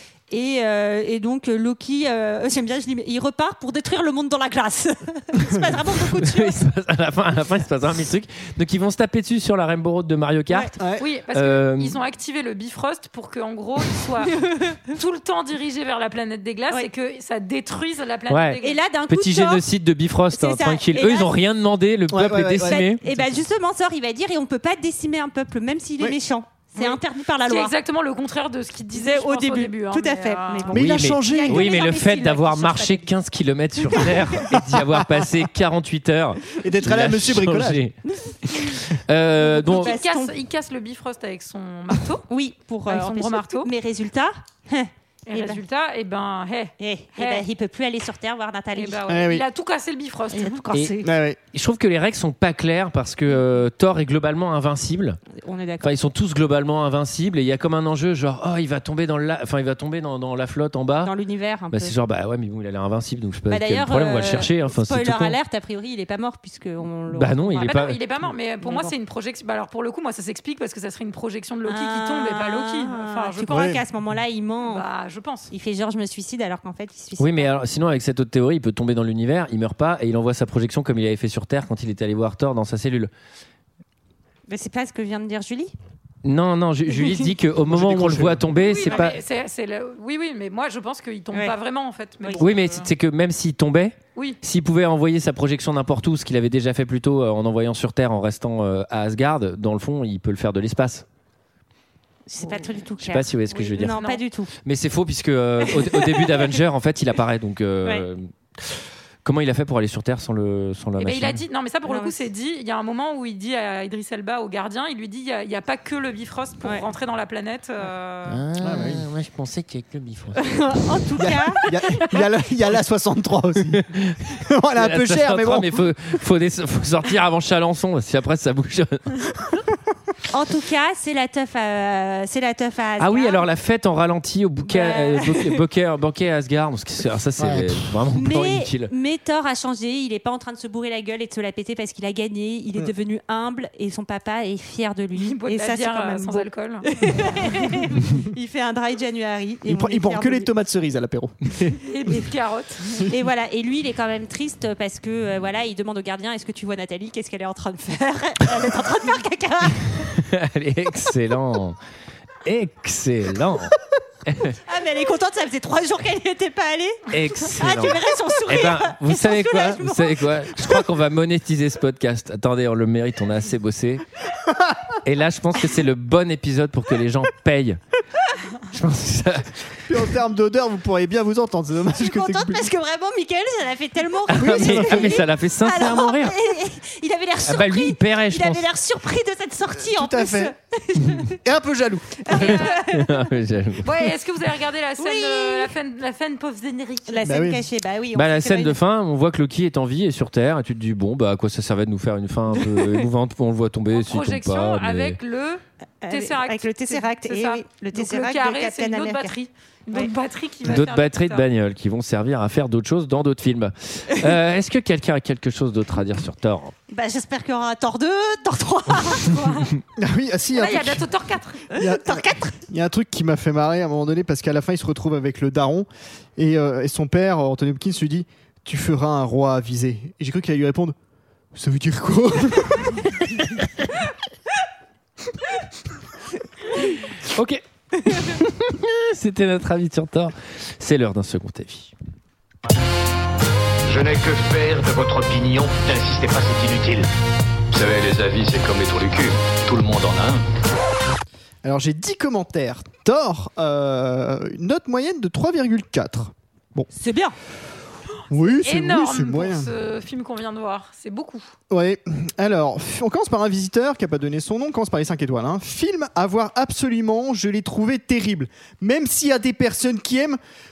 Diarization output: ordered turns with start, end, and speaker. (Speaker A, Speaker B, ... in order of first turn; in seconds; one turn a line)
Speaker A: 0.3-6.6
Speaker B: 5.4-5.7
Speaker C: 6.2-10.7
Speaker B: 10.8-11.1
Speaker D: 11.0-18.8
Speaker C: 11.3-12.0
Speaker A: 14.4-14.8
Speaker C: 18.3-23.0
Speaker A: 18.6-19.6
Speaker A: 20.3-21.3
Speaker B: 22.1-23.4
Speaker A: 22.6-27.7
Speaker D: 26.8-30.8
Speaker A: 28.9-33.1
Speaker B: 30.7-31.8
Speaker C: 30.7-40.0
Speaker A: 33.9-34.5
Speaker B: 34.9-35.2
Speaker B: 36.6-37.8
Speaker A: 38.1-38.8
Speaker A: 39.4-40.3
Speaker D: 39.5-42.3
Speaker A: 42.3-45.6
Speaker D: 42.9-43.7
Speaker D: 45.3-47.5
Speaker A: 46.8-49.0
Speaker D: 48.7-50.7
Speaker B: 49.1-49.5
Speaker A: 50.3-51.1
Speaker C: 50.7-51.0
Speaker B: 51.0-51.4
Speaker C: 51.5-55.2
Speaker A: 55.3-56.0
Speaker C: 55.8-61.1
Speaker A: 61.0-62.0
Speaker C: 61.7-65.4
Speaker A: 63.5-67.9
Speaker C: 67.1-68.0
Speaker D: 67.6-73.5
Speaker A: 68.6-68.9
Speaker A: 71.7-74.8
Speaker B: 73.5-73.8
Speaker D: 74.6-75.5
Speaker A: 75.5-77.5
Speaker C: 77.2-83.1
Speaker A: 84.5-85.7
Speaker C: 86.2-89.2
Speaker B: 87.7-88.5
Speaker D: 88.6-92.9
Speaker C: 92.4-101.0
Speaker D: 94.2-94.4
Speaker A: 102.3-104.5
Speaker D: 102.4-102.7
Speaker C: 103.0-104.0
Speaker D: 103.8-104.2
Speaker C: 104.7-111.4
Speaker A: 105.6-106.5
Speaker D: 111.0-118.4
Speaker A: 111.9-112.1
Speaker C: 118.3-120.8
Speaker B: 118.6-119.0
Speaker A: 120.4-121.7
Speaker B: 121.2-123.8
Speaker C: 121.7-122.2
Speaker C: 123.7-129.3
Speaker B: 124.3-125.8
Speaker A: 130.3-133.5
Speaker C: 133.0-138.9
Speaker A: 134.7-135.4
Speaker B: 137.4-138.0
Speaker A: 138.1-150.5
Speaker D: 145.2-147.2
Speaker B: 149.7-151.6
Speaker D: 151.8-153.0
Speaker A: 153.1-160.1
Speaker C: 160.1-161.8
Speaker C: 162.4-164.6
Speaker A: 164.7-170.9
Speaker C: 167.1-174.1
Speaker B: 174.4-174.9
Speaker C: 175.0-177.8
Speaker C: 178.7-179.6
Speaker B: 179.9-182.7
Speaker A: 181.9-191.4
Speaker C: 184.3-186.4
Speaker B: 184.3-185.3
Speaker C: 187.4-188.7
Speaker B: 189.8-190.5
Speaker B: 191.2-192.3
Speaker A: 192.3-193.2
Speaker D: 192.3-192.9
Speaker C: 192.4-194.1
Speaker D: 193.8-197.2
Speaker A: 195.0-195.7
Speaker A: 197.1-198.8
Speaker B: 197.2-197.7
Speaker C: 198.1-205.2
Speaker A: 202.7-203.0
Speaker D: 203.9-211.4
Speaker A: 206.0-209.3
Speaker C: 210.6-216.7
Speaker A: 216.9-219.7
Speaker D: 219.3-219.6
Speaker B: 220.0-221.1
Speaker D: 220.5-221.7
Speaker B: 221.7-230.9
Speaker A: 221.7-222.6
Speaker B: 231.5-233.0
Speaker C: 236.8-241.9
Speaker E: 243.9-247.1
Speaker E: 247.7-250.4
Speaker B: 251.6-256.9
Speaker A: 256.9-257.4
Speaker B: 258.3-259.7
Speaker D: 258.4-261.5
Speaker B: 261.7-270.4